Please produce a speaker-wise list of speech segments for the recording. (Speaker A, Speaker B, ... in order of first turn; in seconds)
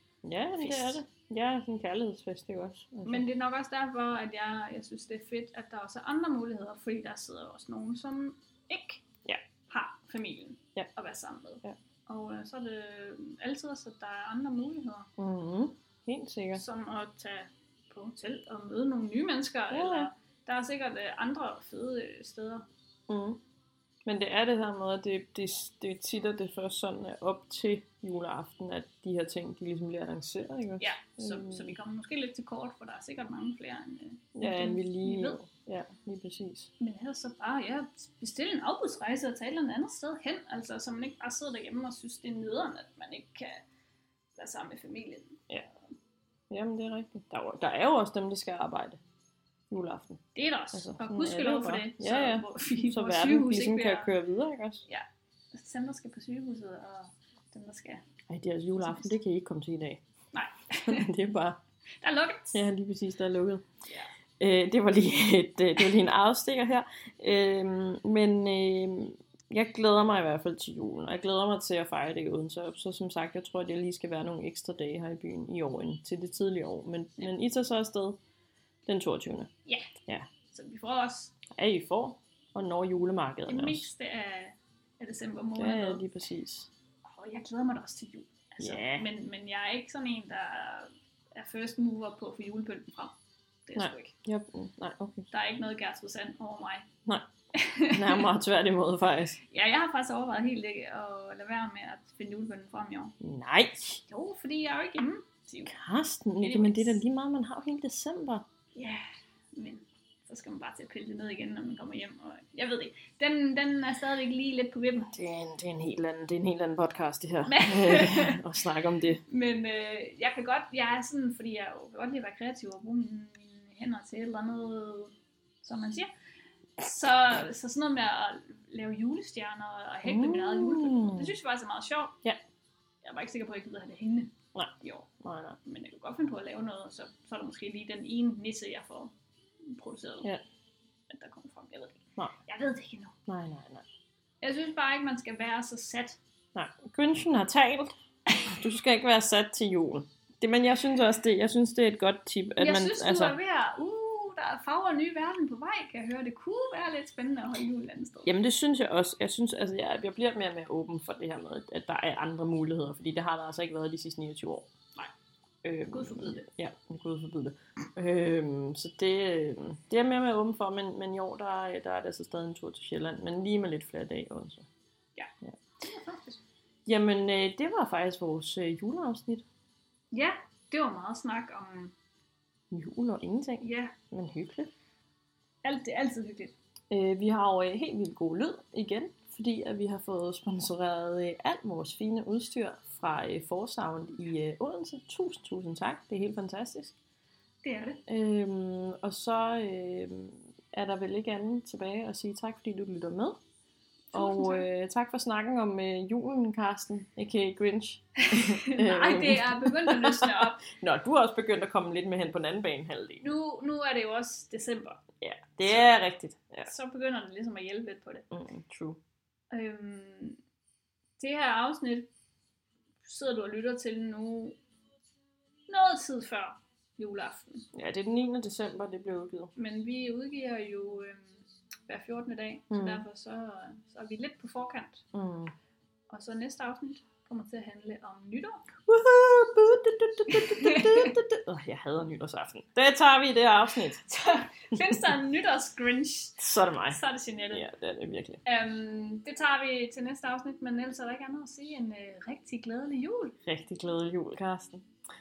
Speaker A: 0.2-3.2, 15.2-16.6, 19.7-20.1, 23.1-23.4, 24.0-31.7, 34.4-36.7, 46.5-49.0, 49.7-50.2, 50.7-54.8, 58.3-60.0, 60.8-61.6, 62.5-63.6, 64.4-78.2, 78.9-79.5, 81.5-83.9, 85.5-86.7, 88.6-89.1, 93.8-95.3, 97.9-99.4, 103.2-104.0, 105.7-108.5, 115.1-119.2, 130.0-131.3, 134.5-135.6, 143.3-143.8, 146.5-153.4, 158.2-164.7, 165.6-174.7, 176.8-179.4, 182.7-184.7, 186.9-197.0, 198.1-203.4, 204.1-213.2, 215.2-216.7, 218.3-219.0, 227.7-229.5, 232.7-233.0, 235.1-235.5, 238.8-244.0, 246.4-247.0, 247.5-248.4, 253.4-254.9
Speaker B: 0.6-1.0, 3.0-9.0, 9.7-15.1, 16.5-22.6, 30.8-35.4, 36.8-43.6, 44.4-45.5, 50.3-54.1, 54.9-58.0, 58.8-59.1, 60.3-61.0, 62.0-62.6, 79.7-79.9, 80.5-81.4, 83.5-86.0, 87.0-93.1, 93.7-94.1, 95.3-96.9, 97.5-98.3, 99.5-103.1, 104.1-105.7, 106.4-107.0, 108.7-109.0, 109.5-115.1, 117.5-118.4, 119.3-126.1, 126.8-132.2, 133.0-135.1, 135.6-140.3, 141.1-143.2, 144.4-146.2, 152.6-158.3, 165.9-166.4, 175.2-176.4, 180.1-181.9, 183.6-183.9, 185.6-186.5, 197.6-198.0, 204.1-204.7, 208.2-210.6, 213.2-215.0, 215.7-216.0, 216.6-218.3, 219.5-220.4, 221.2-222.1, 223.0-224.6, 225.7-227.7, 229.6-235.1, 236.1-238.7, 240.3-241.1, 244.1-247.7, 248.4-253.4